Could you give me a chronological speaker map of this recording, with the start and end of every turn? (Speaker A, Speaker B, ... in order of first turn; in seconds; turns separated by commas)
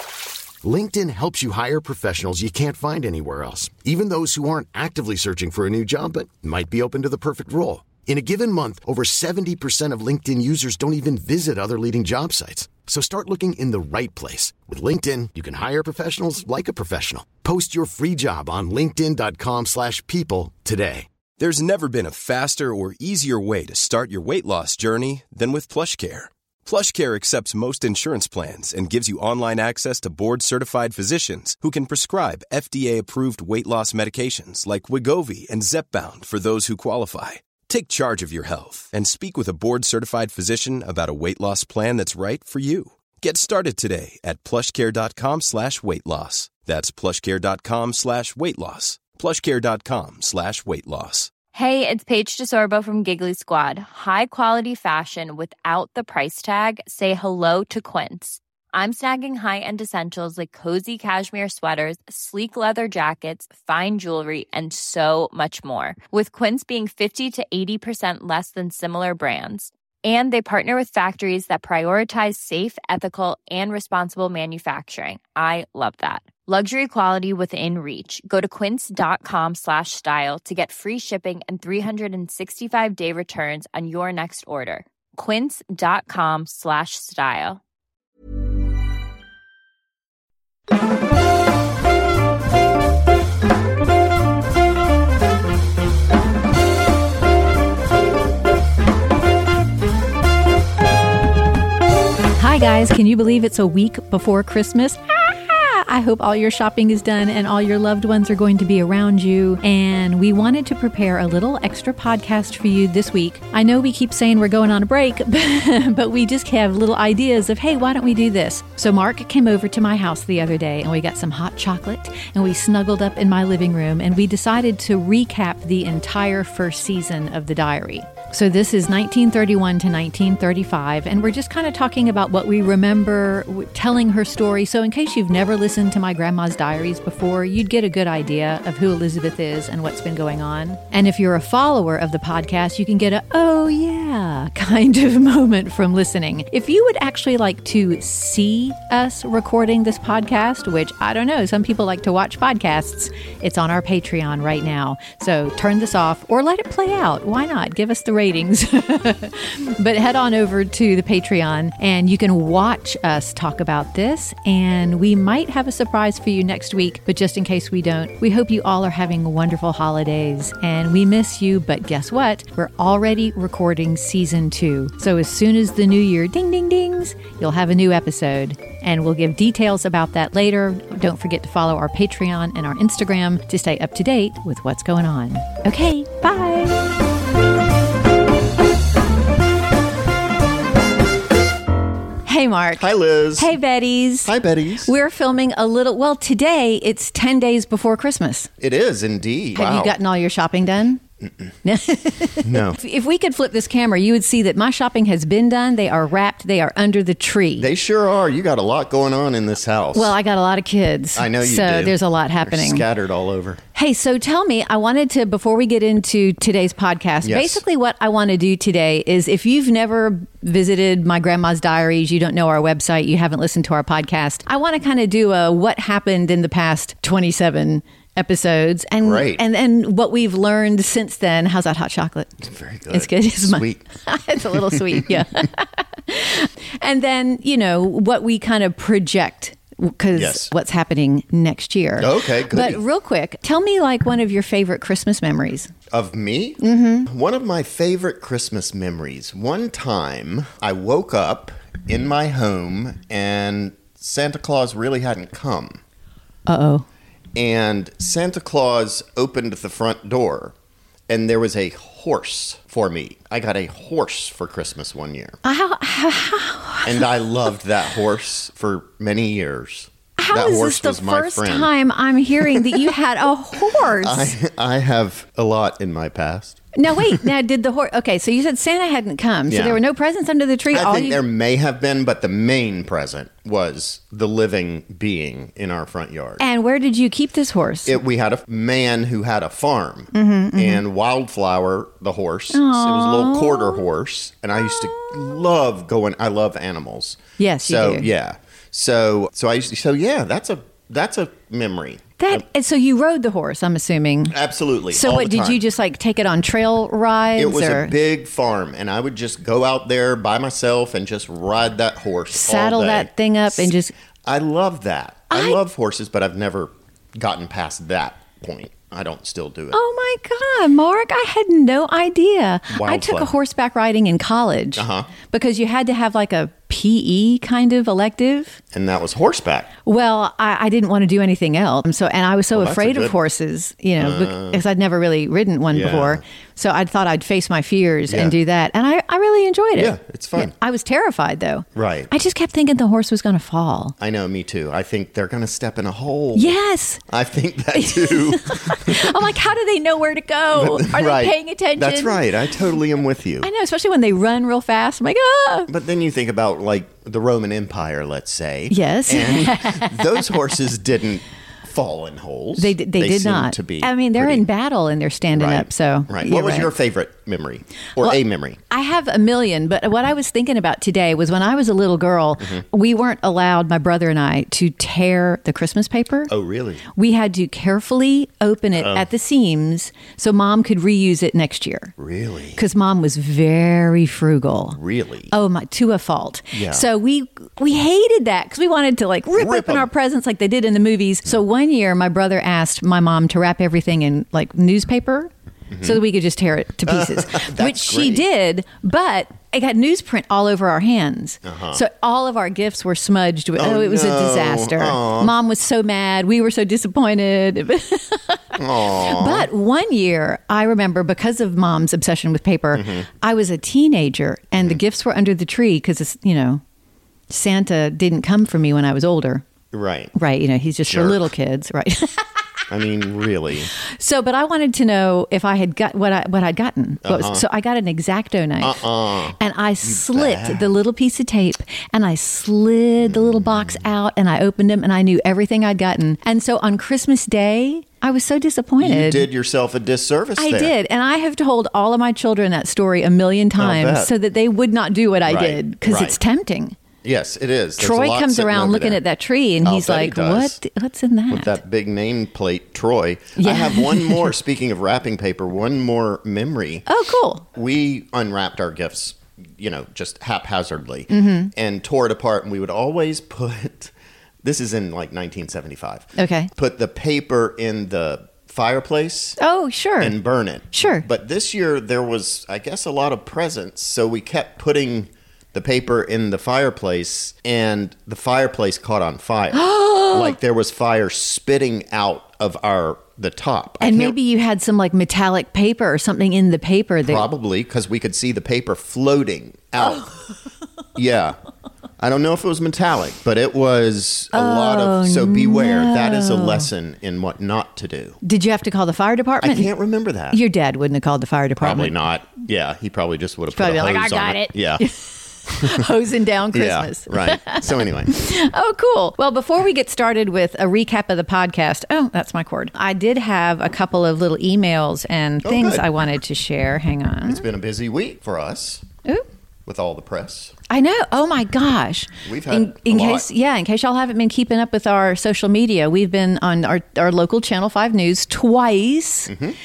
Speaker A: 0.6-21.1, Speaker B: 21.4-51.3, Speaker C: 51.5-87.6, Speaker D: 102.3-186.8, Speaker D: 192.3-194.3, Speaker E: 192.8-193.6, Speaker E: 194.2-194.9, Speaker D: 194.8-198.5, Speaker E: 198.6-200.0, Speaker D: 199.6-201.0, Speaker D: 201.6-207.7, Speaker E: 202.4-202.8, Speaker E: 207.6-210.2, Speaker D: 209.9-212.9, Speaker E: 211.2-213.6, Speaker D: 213.8-232.4, Speaker E: 217.2-217.6, Speaker E: 229.0-229.4, Speaker E: 232.4-233.8, Speaker D: 232.9-245.7, Speaker E: 234.5-235.1, Speaker E: 240.1-240.5, Speaker E: 242.0-242.8, Speaker E: 245.9-255.8, Speaker D: 246.6-247.1, Speaker D: 256.5-256.9, Speaker E: 257.4-260.6, Speaker E: 261.1-265.4, Speaker D: 265.4-267.5, Speaker E: 266.9-271.7, Speaker D: 270.2-274.4, Speaker E: 272.5-272.9, Speaker E: 273.8-277.2, Speaker D: 276.8-281.2, Speaker E: 279.5-279.8, Speaker E: 280.7-286.4, Speaker D: 286.4-288.0, Speaker E: 287.9-302.4, Speaker D: 290.1-290.8, Speaker D: 292.5-293.9, Speaker D: 294.6-295.4, Speaker D: 297.4-298.1, Speaker D: 302.2-304.4, Speaker E: 304.3-305.6, Speaker D: 304.9-307.9, Speaker E: 307.4-313.7, Speaker D: 312.3-313.9, Speaker E: 314.3-319.8, Speaker D: 315.3-315.6, Speaker D: 319.7-328.6, Speaker E: 322.7-323.3, Speaker E: 324.8-325.1, Speaker E: 328.7-329.7, Speaker D: 329.9-343.9, Speaker E: 332.5-333.1, Speaker E: 334.0-334.6, Speaker E: 335.7-336.2, Speaker E: 338.1-338.4, Speaker E: 339.8-340.5, Speaker E: 341.8-342.1, Speaker E: 344.0-346.6, Speaker D: 346.3-347.0, Speaker E: 347.1-349.2, Speaker D: 347.7-352.2, Speaker E: 350.5-353.5, Speaker D: 353.4-355.7, Speaker E: 355.7-364.5, Speaker D: 358.7-360.4, Speaker D: 362.6-366.7, Speaker E: 365.4-368.6, Speaker D: 368.0-376.3, Speaker E: 376.3-376.8, Speaker D: 376.9-381.9, Speaker E: 378.8-379.1, Speaker E: 382.0-382.6, Speaker D: 382.6-384.8, Speaker E: 384.7-385.3, Speaker D: 385.3-416.6, Speaker E: 386.5-386.9, Speaker E: 389.4-389.9, Speaker E: 395.7-396.0, Speaker E: 396.9-398.3, Speaker E: 401.4-401.8, Speaker E: 403.6-405.3, Speaker E: 408.6-409.5, Speaker E: 412.7-413.1, Speaker E: 414.6-414.8, Speaker D: 417.3-419.4, Speaker E: 419.7-420.1, Speaker D: 420.1-422.3, Speaker E: 420.9-421.3, Speaker E: 422.7-423.7, Speaker D: 423.8-428.8, Speaker E: 427.0-427.4, Speaker E: 428.6-430.7, Speaker D: 429.4-439.3, Speaker E: 433.0-433.9, Speaker E: 438.8-440.8, Speaker D: 440.4-446.8, Speaker E: 443.6-444.1, Speaker E: 445.3-446.2, Speaker E: 447.0-449.0, Speaker D: 447.8-451.6, Speaker E: 449.6-450.6, Speaker E: 451.3-456.9, Speaker D: 453.4-454.4, Speaker D: 456.9-457.5, Speaker E: 457.5-469.4, Speaker D: 461.1-461.5, Speaker D: 466.2-466.5, Speaker D: 469.4-470.2, Speaker E: 470.0-484.2, Speaker D: 470.7-471.1, Speaker D: 479.5-480.4, Speaker D: 483.8-487.3, Speaker E: 487.0-490.1, Speaker D: 489.8-490.1, Speaker E: 491.0-491.4, Speaker E: 492.0-498.2, Speaker D: 494.3-496.7, Speaker D: 498.2-499.7, Speaker E: 499.4-500.4, Speaker D: 500.3-502.0, Speaker E: 501.6-504.9, Speaker D: 503.5-517.4, Speaker E: 505.5-505.9, Speaker E: 506.5-508.1, Speaker E: 515.4-515.9, Speaker E: 517.3-518.9, Speaker E: 519.7-520.5, Speaker D: 520.7-529.3, Speaker E: 522.2-523.3, Speaker E: 529.3-529.6